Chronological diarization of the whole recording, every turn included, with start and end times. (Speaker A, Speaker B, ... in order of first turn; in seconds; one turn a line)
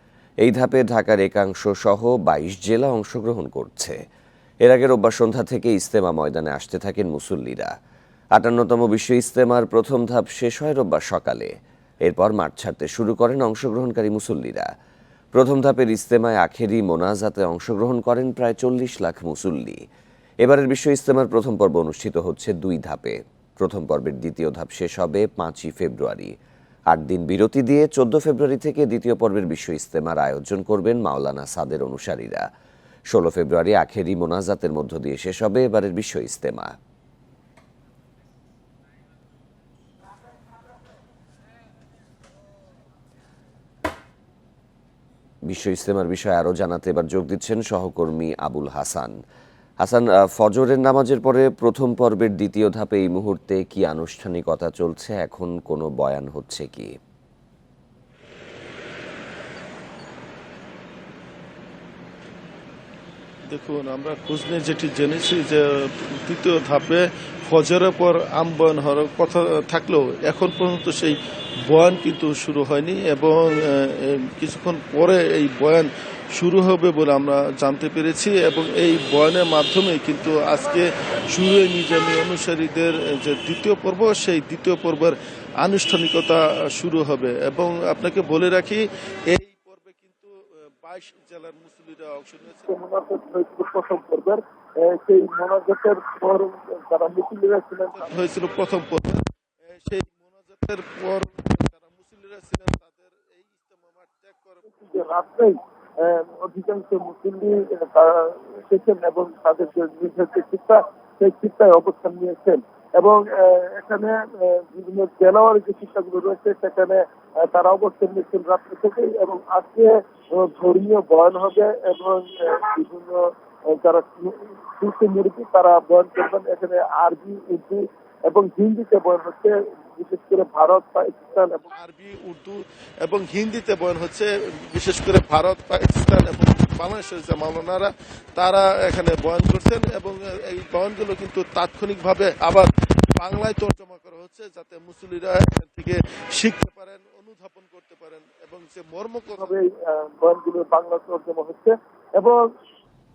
Speaker A: 0.4-4.0
Speaker A: 4.6-7.7
Speaker A: 8.3-11.5
Speaker A: 12.1-14.7
Speaker A: 15.3-19.8
Speaker A: 20.4-26.3
Speaker A: 26.9-32.5
Speaker A: 33.1-36.7
Speaker A: 45.5-49.1
Speaker A: 49.8-56.9
Speaker B: 63.5-92.7
Speaker C: 92.7-98.1
Speaker B: 97.9-105.0
Speaker C: 104.9-131.7
Speaker B: 131.7-149.5
Speaker C: 149.4-152.4